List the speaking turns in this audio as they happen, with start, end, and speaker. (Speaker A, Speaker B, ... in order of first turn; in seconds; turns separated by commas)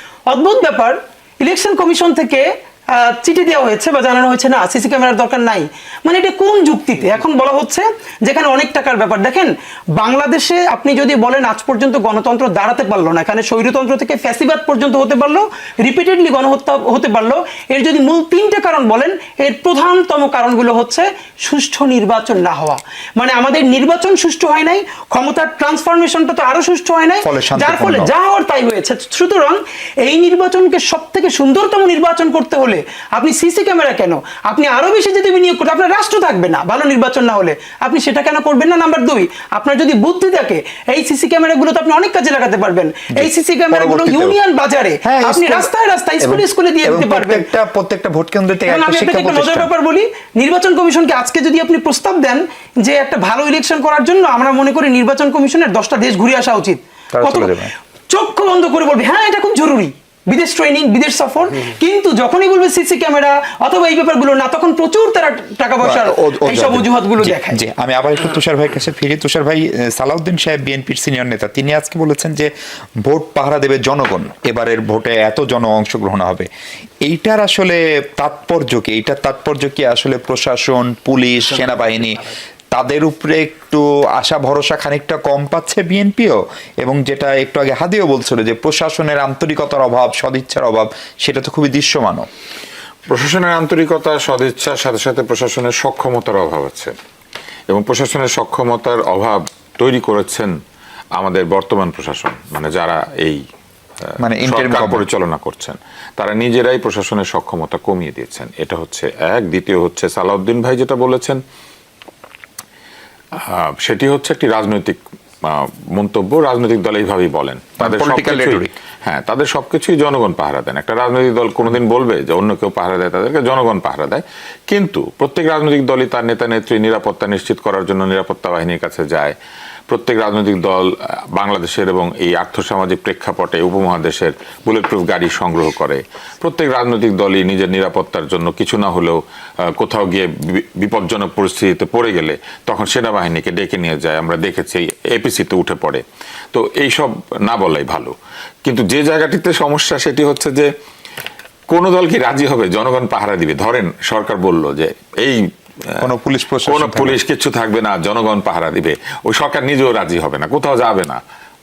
Speaker A: 0.3-47.4, Speaker B: 27.2-28.1, Speaker B: 43.1-44.4, Speaker B: 45.0-45.7, Speaker B: 46.2-49.7, Speaker A: 48.7-67.6, Speaker B: 57.1-57.7, Speaker B: 65.8-72.5, Speaker B: 73.0-76.5, Speaker B: 77.0-82.2, Speaker B: 82.7-92.3, Speaker C: 93.1-96.9, Speaker C: 97.7-100.6, Speaker C: 101.2-103.4, Speaker C: 104.1-111.4, Speaker B: 104.2-105.0, Speaker C: 113.3-129.3, Speaker B: 117.8-118.7, Speaker C: 129.9-150.7, Speaker C: 151.7-156.0, Speaker B: 156.0-157.2, Speaker C: 156.6-161.2